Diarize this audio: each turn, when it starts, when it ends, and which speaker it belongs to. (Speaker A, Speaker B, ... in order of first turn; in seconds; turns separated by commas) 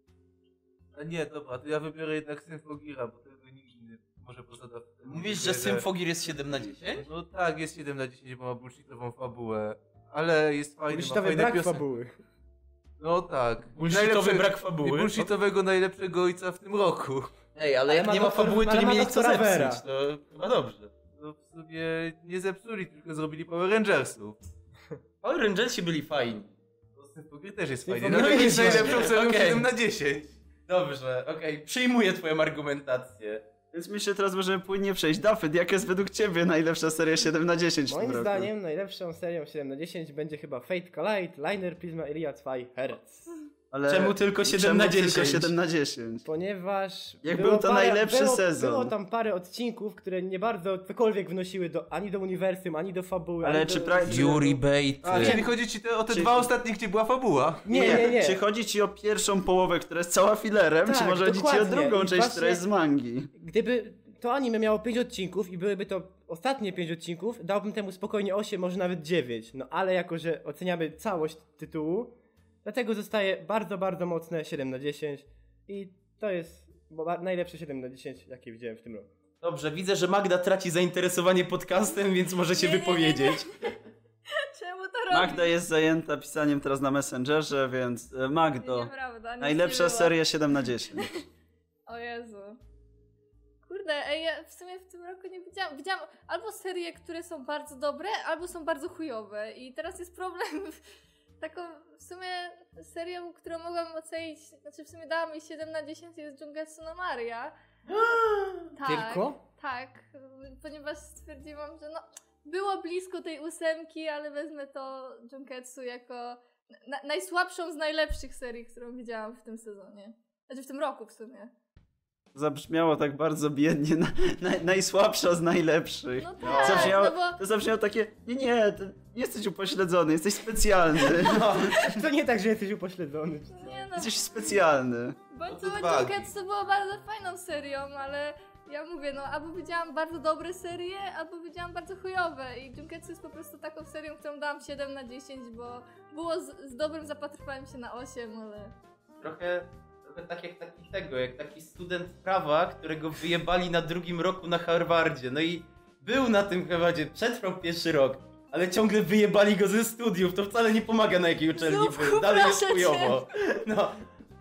Speaker A: 0.9-5.8, Speaker B: 5.1-7.1, Speaker A: 7.0-11.8, Speaker C: 10.9-12.2, Speaker A: 13.0-17.3, Speaker B: 13.8-15.3, Speaker B: 17.6-20.9, Speaker C: 17.9-19.8, Speaker A: 21.2-24.4, Speaker B: 25.2-26.5, Speaker A: 26.9-30.3, Speaker C: 27.9-29.1, Speaker B: 28.1-29.7, Speaker B: 30.7-33.4, Speaker D: 33.7-38.5, Speaker C: 37.9-43.2, Speaker D: 43.7-46.2, Speaker B: 43.9-45.5, Speaker C: 46.2-54.6, Speaker D: 47.2-48.9, Speaker D: 53.4-54.4, Speaker B: 54.1-55.4, Speaker A: 55.0-58.0, Speaker D: 56.1-56.5, Speaker C: 57.6-58.4, Speaker D: 57.7-63.3, Speaker C: 60.8-62.6, Speaker C: 63.3-79.1, Speaker B: 79.4-83.7, Speaker E: 82.5-83.5, Speaker E: 84.4-85.5, Speaker D: 85.1-88.9, Speaker E: 88.6-90.1, Speaker D: 89.4-91.1, Speaker E: 91.9-92.6, Speaker E: 93.6-100.8, Speaker E: 101.4-107.5, Speaker B: 107.9-108.7, Speaker E: 108.8-121.5, Speaker C: 108.8-109.4, Speaker D: 122.3-131.9, Speaker E: 126.2-127.4, Speaker B: 126.4-127.0, Speaker B: 131.2-131.8, Speaker C: 131.8-133.8, Speaker E: 133.5-134.2, Speaker D: 133.9-135.2, Speaker E: 135.3-148.7, Speaker A: 135.5-136.3, Speaker B: 149.2-164.0, Speaker E: 161.6-163.2